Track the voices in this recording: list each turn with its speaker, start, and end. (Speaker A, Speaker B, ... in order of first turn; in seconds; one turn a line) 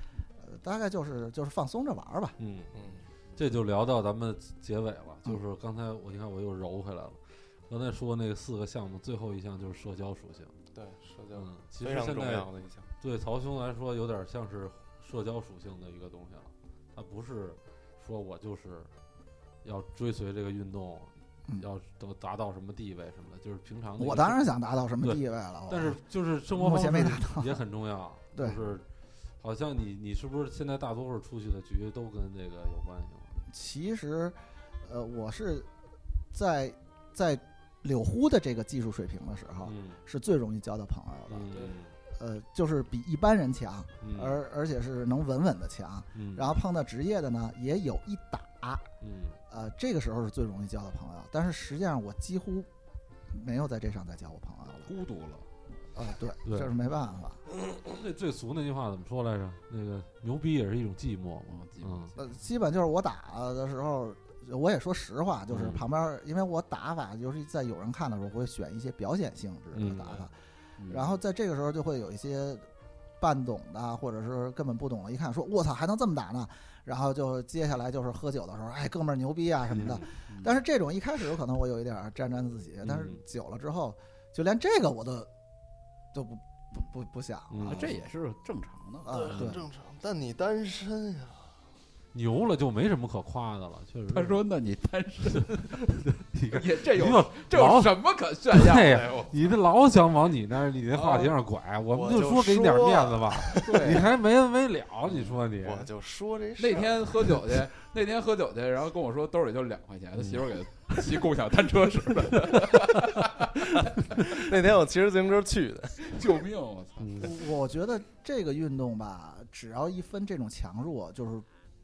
Speaker A: 0.4-2.4
Speaker B: 2.4-2.7
Speaker C: 2.7-3.0
Speaker B: 3.4-10.5
Speaker C: 10.7-12.8
Speaker B: 11.3-12.5
Speaker B: 13.0-18.9
Speaker B: 19.6-24.4
Speaker A: 24.0-27.6
Speaker B: 25.0-28.9
Speaker A: 28.3-28.6
Speaker B: 29.4-33.4
Speaker A: 33.5-35.7
Speaker A: 36.3-41.5
Speaker B: 39.6-40.0
Speaker B: 41.3-41.9
Speaker A: 42.1-48.9
Speaker B: 44.0-44.4
Speaker B: 46.1-46.5
Speaker B: 49.0-49.4
Speaker A: 49.5-52.7
Speaker A: 53.3-54.9
Speaker D: 54.9-55.5
Speaker A: 55.9-57.4
Speaker B: 56.4-56.7
Speaker B: 57.8-62.1
Speaker D: 61.5-62.3
Speaker A: 62.2-70.3
Speaker B: 65.5-65.8
Speaker B: 69.7-70.2
Speaker D: 70.8-71.2
Speaker A: 70.9-72.7
Speaker A: 73.2-85.3
Speaker B: 79.7-80.0
Speaker D: 80.3-80.6
Speaker B: 82.8-83.2
Speaker A: 86.1-87.9
Speaker B: 87.5-87.9
Speaker D: 87.6-89.5
Speaker A: 89.0-89.6
Speaker C: 89.1-91.5
Speaker B: 92.1-94.4
Speaker D: 94.1-95.8
Speaker B: 95.5-98.0
Speaker D: 96.5-99.1
Speaker B: 98.5-105.9
Speaker C: 98.9-99.5
Speaker D: 100.9-101.3
Speaker C: 101.9-104.0
Speaker D: 103.6-104.1
Speaker C: 105.6-107.1
Speaker D: 106.6-114.3
Speaker B: 110.2-111.0
Speaker B: 112.5-112.8
Speaker C: 114.3-116.3
Speaker D: 116.0-117.3
Speaker B: 117.0-117.3
Speaker A: 117.2-121.5